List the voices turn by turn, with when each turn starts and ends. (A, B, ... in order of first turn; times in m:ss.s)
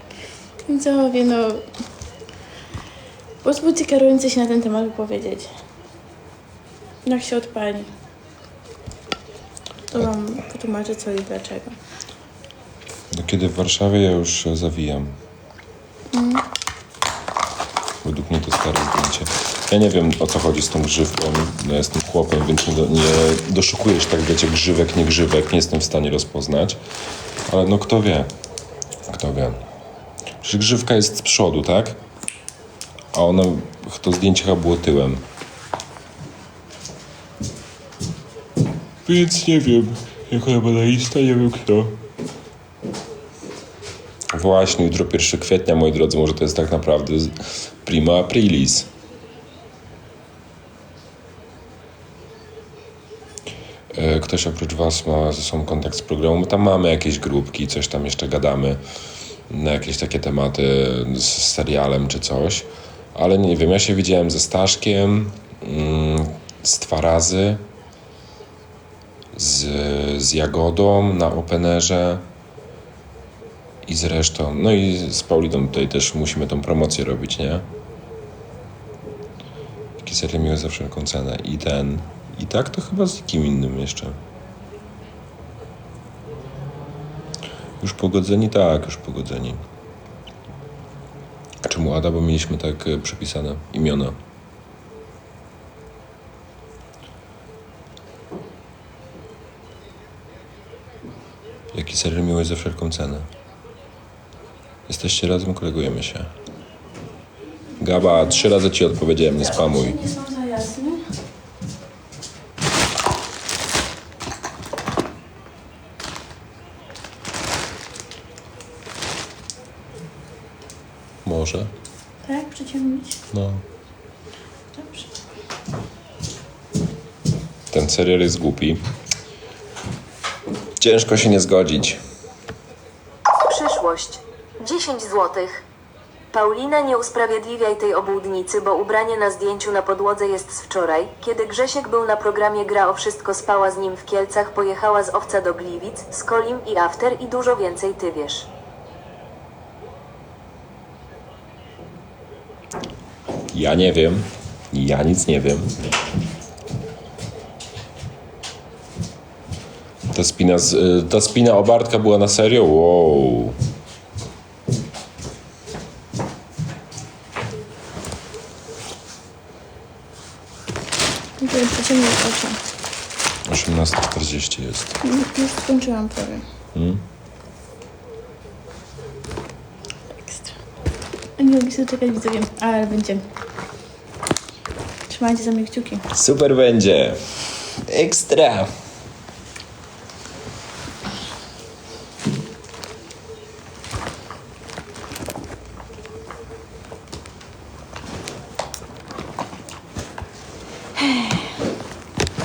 0:00.7-0:01.7 A
0:03.4-0:05.5 A
0:07.1-0:07.9 A
0:09.9-0:11.8 A
0:13.1-0:15.2 B
0:16.1-0:16.4 A
0:18.0-0:26.8 B
0:27.4-0:28.3 B
0:29.0-0:29.6 B
0:30.4-0:32.0 B
0:33.1-0:35.2 B
0:39.0-0:42.0 B
0:44.3-0:48.9 B
0:53.9-0:58.8 B
0:59.5-1:07.6 B
1:09.3-1:12.3 B
1:13.8-1:17.7 B
1:20.0-1:24.2 B
1:27.8-1:29.6 B
1:31.6-1:34.2 B
1:41.7-1:43.3 B
1:44.9-1:46.3 B
1:47.8-1:50.0 B
1:48.0-1:48.5 A
1:49.3-1:51.1 A
2:01.2-2:01.7 B
2:02.2-2:03.2 A
2:03.3-2:03.6 B
2:04.8-2:05.1 A
2:07.7-2:08.8 B
2:10.8-2:12.0 B
2:13.4-2:15.6 C
2:16.3-2:28.5 C
2:33.5-2:35.7 B
2:40.1-2:43.6 B
2:51.4-2:52.6 A
2:53.5-2:55.0 B
2:55.0-2:56.4 A
2:56.7-2:57.0 B
3:00.2-3:00.6 A
3:01.4-3:03.2 A
3:05.1-3:06.1 A
3:06.1-3:08.7 B
3:21.0-3:21.5 A